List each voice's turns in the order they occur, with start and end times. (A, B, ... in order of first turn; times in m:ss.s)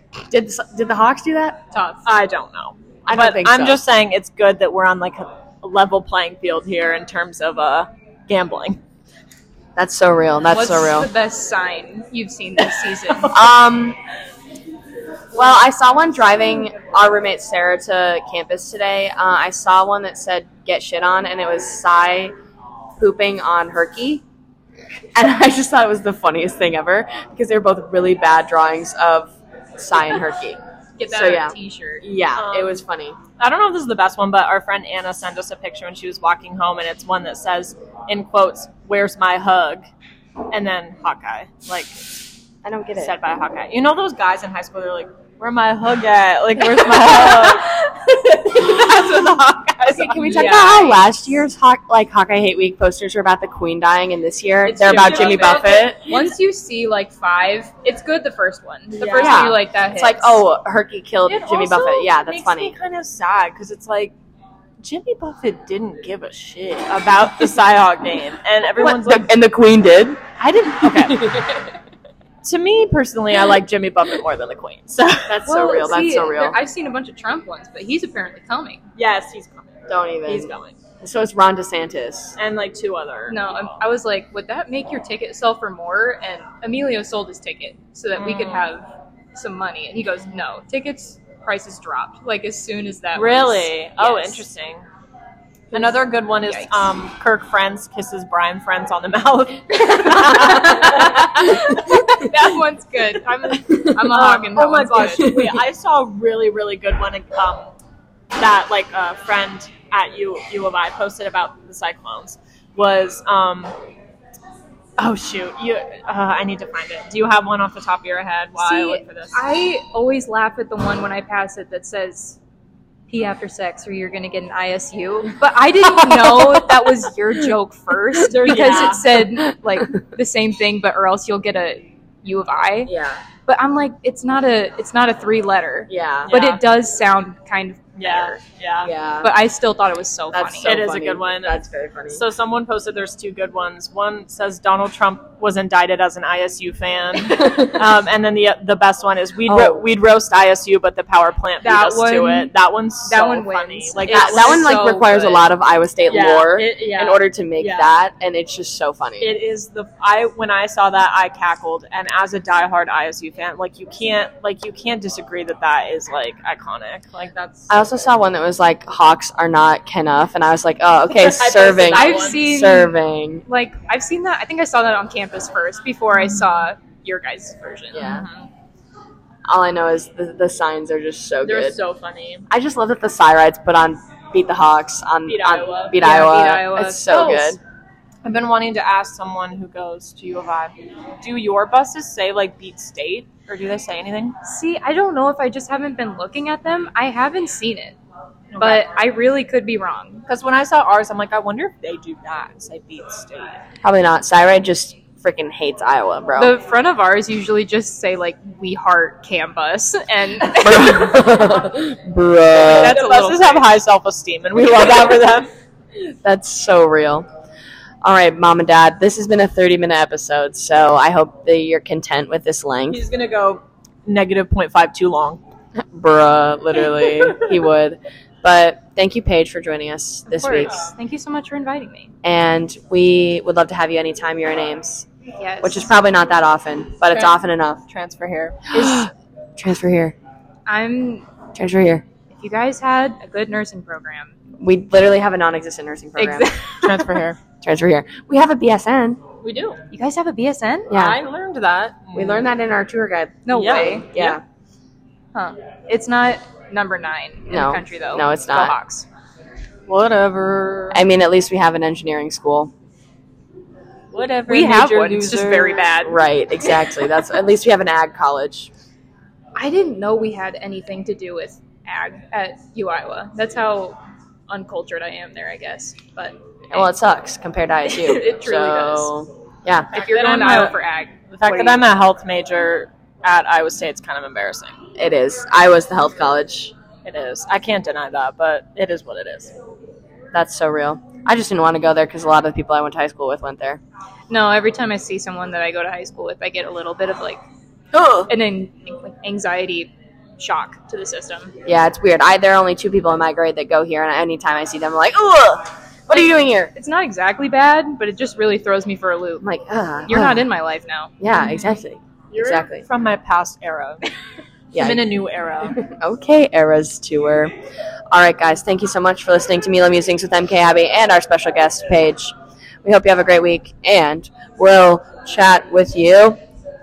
0:00.3-0:01.6 A
0:01.7-0:02.1 B
0:02.0-0:08.8 C
0:03.1-0:03.8 A
0:09.8-0:11.1 A
0:10.5-0:13.3 B
0:13.3-0:14.0 A
0:15.4-0:22.3 A
0:23.0-0:24.2 A
0:25.2-0:33.2 A
0:31.0-0:32.1 B
0:32.4-0:32.8 C
0:33.4-0:39.8 C
0:40.5-0:42.0 C
0:42.6-0:43.2 A
0:43.0-0:50.6 C
0:46.7-0:47.6 A
0:49.8-0:56.1 A
0:50.1-0:51.1 B
0:54.7-0:56.3 C
0:54.7-1:00.4 B
0:58.9-0:59.5 C
0:59.2-1:02.8 A
1:01.3-1:04.2 C
1:04.8-1:09.3 C
1:08.8-1:10.2 A
1:10.4-1:11.4 C
1:10.8-1:11.6 A
1:12.4-1:15.4 C
1:15.3-1:16.6 A
1:15.5-1:18.8 B
1:19.0-1:20.8 C
1:19.9-1:22.4 A
1:22.4-1:23.4 C
1:23.3-1:34.4 B
1:28.2-1:28.7 C
1:33.2-1:34.8 C
1:35.7-1:42.0 C
1:36.5-1:36.9 B
1:40.1-1:45.3 B
1:40.3-1:41.5 A
1:43.6-1:45.6 A
1:44.1-1:47.7 C
1:48.4-1:53.7 C
1:55.0-1:59.4 C
1:58.6-2:02.4 B
2:03.1-2:12.9 B
2:08.2-2:09.1 C
2:08.5-2:08.9 A
2:12.9-2:13.2 A
2:13.5-2:18.4 B
2:15.9-2:16.3 A
2:16.3-2:16.6 C
2:18.0-2:18.9 C
2:18.8-2:19.3 A
2:19.2-2:20.8 B
2:20.3-2:22.2 A
2:20.6-2:35.4 C
2:27.4-2:27.8 A
2:29.5-2:29.8 A
2:31.6-2:32.5 B
2:33.1-2:35.3 B
2:34.1-2:39.3 A
2:36.1-2:37.9 C
2:39.2-2:47.8 C
2:47.7-2:53.4 A
2:51.1-2:52.4 C
2:51.9-2:58.1 B
2:56.1-2:56.7 C
2:57.9-2:58.3 A
2:58.0-2:58.5 C
2:59.5-3:01.8 A
3:01.4-3:02.5 C
3:02.5-3:07.6 A
3:05.3-3:06.0 C
3:05.9-3:07.6 B
3:07.1-3:07.6 C
3:08.2-3:14.4 C
3:14.4-3:18.0 B
3:18.5-3:18.9 C
3:18.6-3:20.2 B
3:20.3-3:23.6 C
3:23.8-3:26.6 A
3:26.4-3:31.1 B
3:30.6-3:33.0 A
3:32.6-3:33.7 B
3:32.7-3:35.5 C
3:36.2-3:37.3 A
3:38.0-3:43.0 A
3:42.9-3:45.4 C
3:45.8-3:50.8 A
3:47.1-3:47.5 C
3:50.3-3:52.1 B
3:52.2-3:55.1 A
3:55.4-3:55.9 B
3:55.6-3:57.8 A
3:57.1-3:57.3 C
3:57.9-3:58.6 C
3:58.7-3:59.1 B
3:58.7-4:00.2 A
4:00.7-4:01.3 B
4:01.6-4:02.0 A
4:02.3-4:04.3 B
4:04.6-4:06.5 A
4:06.2-4:07.2 B
4:06.8-4:07.4 C
4:07.6-4:09.2 A
4:09.4-4:09.8 C
4:09.9-4:10.9 B
4:10.9-4:11.2 A
4:10.9-4:12.5 C
4:12.1-4:14.4 A
4:13.5-4:14.1 B
4:13.6-4:14.4 C
4:15.3-4:19.1 B
4:17.5-4:18.8 A
4:19.9-4:21.0 C
4:20.9-4:22.7 A
4:24.1-4:25.9 C
4:24.5-4:26.2 B
4:26.0-4:28.7 A
4:29.6-4:34.0 B
4:34.5-4:36.9 B
4:36.7-4:39.9 A
4:37.8-4:39.1 B
4:39.9-4:41.8 B
4:39.9-4:40.8 C
4:41.3-4:44.8 C
4:45.0-4:46.7 A
4:47.0-4:49.5 C
4:50.3-4:53.8 A
4:54.3-4:57.4 B
4:57.9-4:58.3 A
4:58.3-5:01.6 B
5:01.6-5:06.7 A
5:06.8-5:09.5 B
5:09.4-5:10.5 A
5:10.1-5:11.1 B
5:11.2-5:12.8 A
5:12.3-5:14.0 C
5:14.7-5:15.0 A
5:14.8-5:15.8 C
5:15.6-5:17.5 A
5:18.1-5:26.4 A